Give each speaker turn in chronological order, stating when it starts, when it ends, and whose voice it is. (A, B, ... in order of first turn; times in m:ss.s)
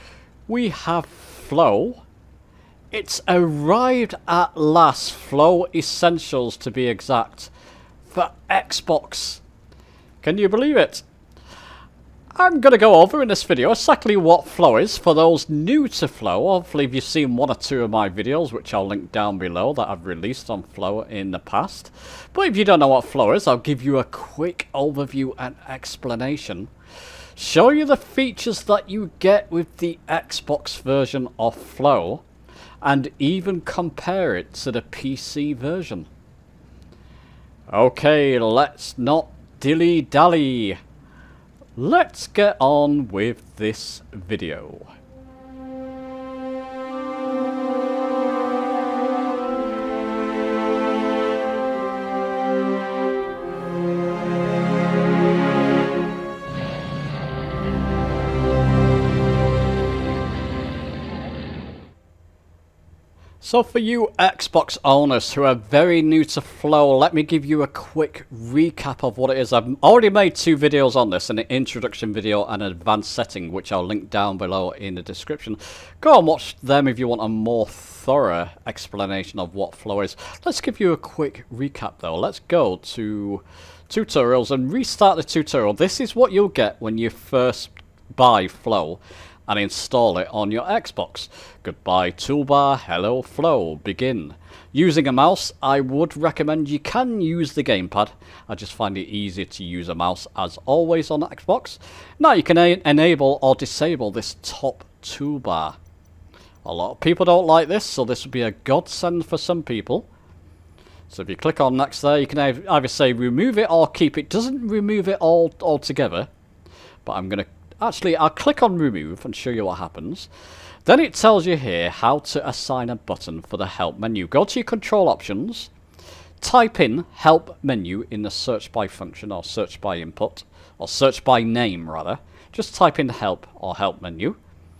0:00.5-0:02.0 A
0:02.9-0:07.5 A
0:08.1-0:09.4 A
0:10.2-0:11.0 A
0:12.4-0:26.7 A
0:27.4-0:32.2 A
0:32.8-0:36.1 A
0:37.7-0:40.8 A
0:41.8-0:44.9 A
1:03.4-1:45.8 A
1:46.6-1:50.1 A
1:51.1-1:56.3 A
1:57.0-2:00.3 A
2:00.8-2:05.7 A
2:06.4-2:14.4 A